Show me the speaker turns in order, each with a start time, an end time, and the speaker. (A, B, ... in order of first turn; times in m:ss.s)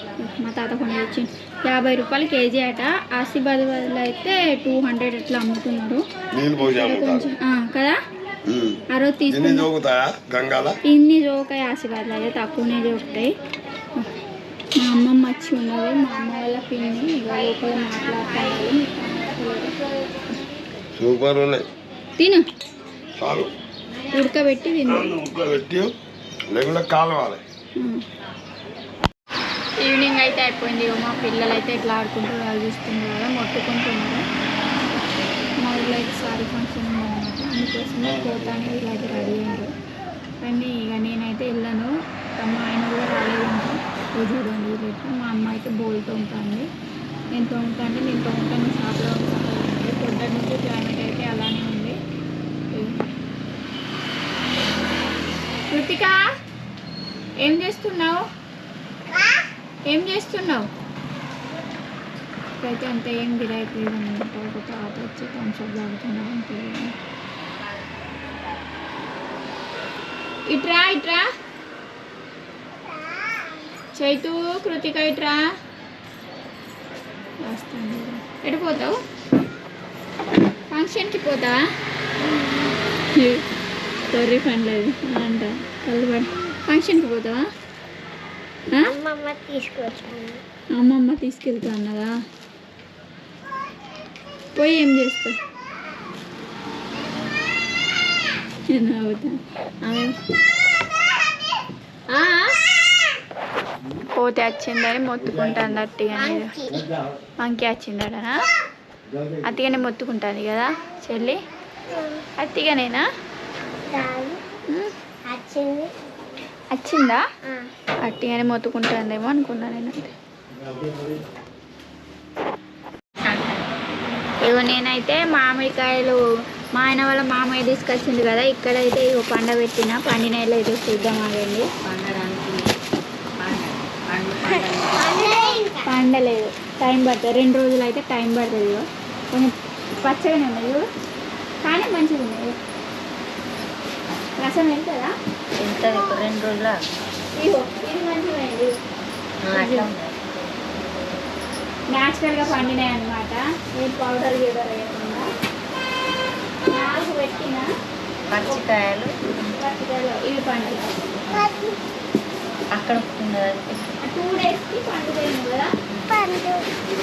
0:00.2-0:06.0 A
0:06.3-0:07.3 B
0:06.6-0:08.0 A
0:08.4-0:10.8 B
0:08.9-0:09.7 A
0:10.8-0:13.3 A
0:14.8-0:19.7 A
0:21.0-0:21.6 B
0:22.2-0:22.4 A
0:23.2-0:23.5 B
0:24.1-0:25.2 A
0:24.9-0:25.9 B
0:26.5-0:27.4 B
0:27.8-0:28.0 A
0:29.8-0:34.2 A
0:35.6-0:39.7 A
0:40.4-0:46.7 A
0:47.3-0:52.0 A
0:52.7-0:53.1 A
0:55.7-0:56.2 A
0:57.4-0:58.2 A
0:59.9-1:00.7 A
1:02.6-1:06.9 A
1:10.5-1:11.2 A
1:13.9-1:15.4 A
1:17.4-1:19.0 A
1:20.7-1:21.6 A
1:22.2-1:22.7 C
1:23.1-1:23.4 A
1:24.1-1:27.4 A
1:28.9-1:30.4 C
1:30.7-1:32.1 A
1:34.6-1:35.3 A
1:38.7-1:40.1 A
1:42.1-1:42.6 A
1:44.1-1:46.7 A
1:46.1-1:46.8 C
1:47.4-1:48.3 A
1:49.4-1:51.4 A
1:51.9-1:52.2 C
1:52.4-1:53.0 A
1:53.8-1:54.4 C
1:55.2-1:55.9 C
1:56.7-1:57.2 A
1:58.0-2:00.1 A
2:03.2-2:03.6 D
2:04.4-2:06.2 A
2:06.7-2:11.7 A
2:11.8-2:12.7 D
2:13.4-2:15.4 D
2:14.9-2:15.9 C
2:15.8-2:20.8 A
2:21.6-2:22.6 A
2:24.4-2:25.1 A
2:25.6-2:26.8 D
2:27.4-2:28.8 A
2:29.4-2:30.2 D
2:29.5-2:29.9 A
2:31.9-2:35.2 A
2:36.7-2:37.7 A
2:38.3-2:39.2 D
2:39.4-2:41.0 A
2:41.3-2:41.8 C
2:42.7-2:43.9 D
2:44.0-2:45.7 A
2:46.1-2:46.6 C